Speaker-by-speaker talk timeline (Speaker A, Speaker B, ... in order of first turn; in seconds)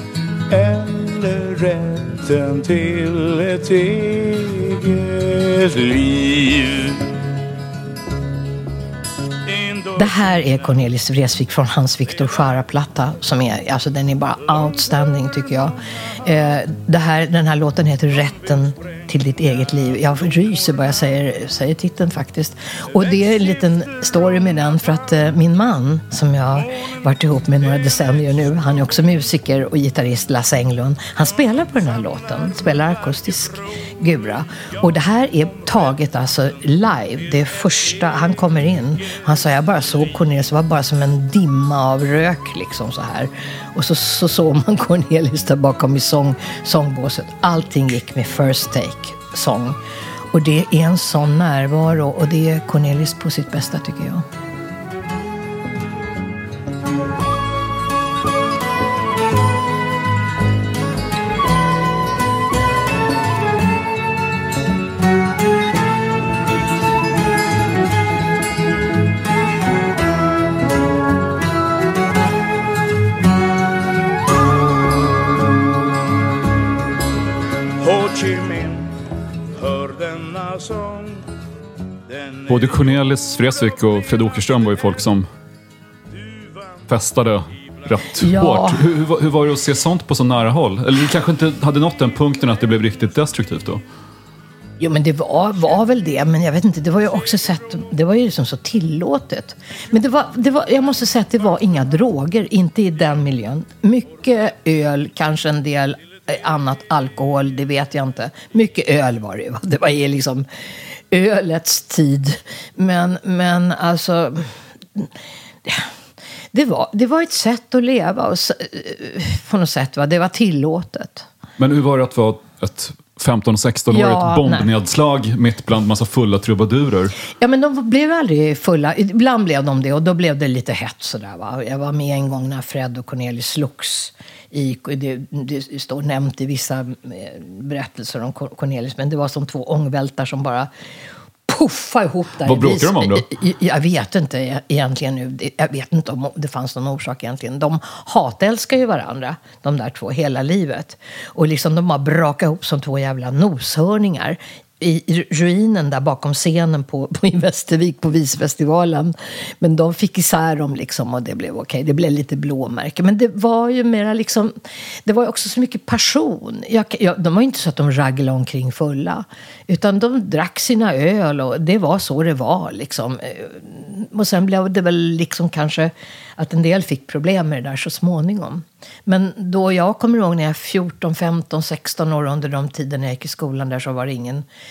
Speaker A: 0.5-7.1, 9.5-10.3, 77.8-78.9, 79.5-81.2, 82.1-82.8, 86.3-86.8
Speaker B: 10.0-49.8, 50.3-54.2, 88.2-88.8, 94.8-110.5, 111.1-115.1, 116.5-121.3, 123.9-124.7, 127.4-140.7, 141.5-164.5, 165.1-184.4
Speaker C: 82.5-85.3, 86.9-93.8, 121.6-127.1, 142.4-143.3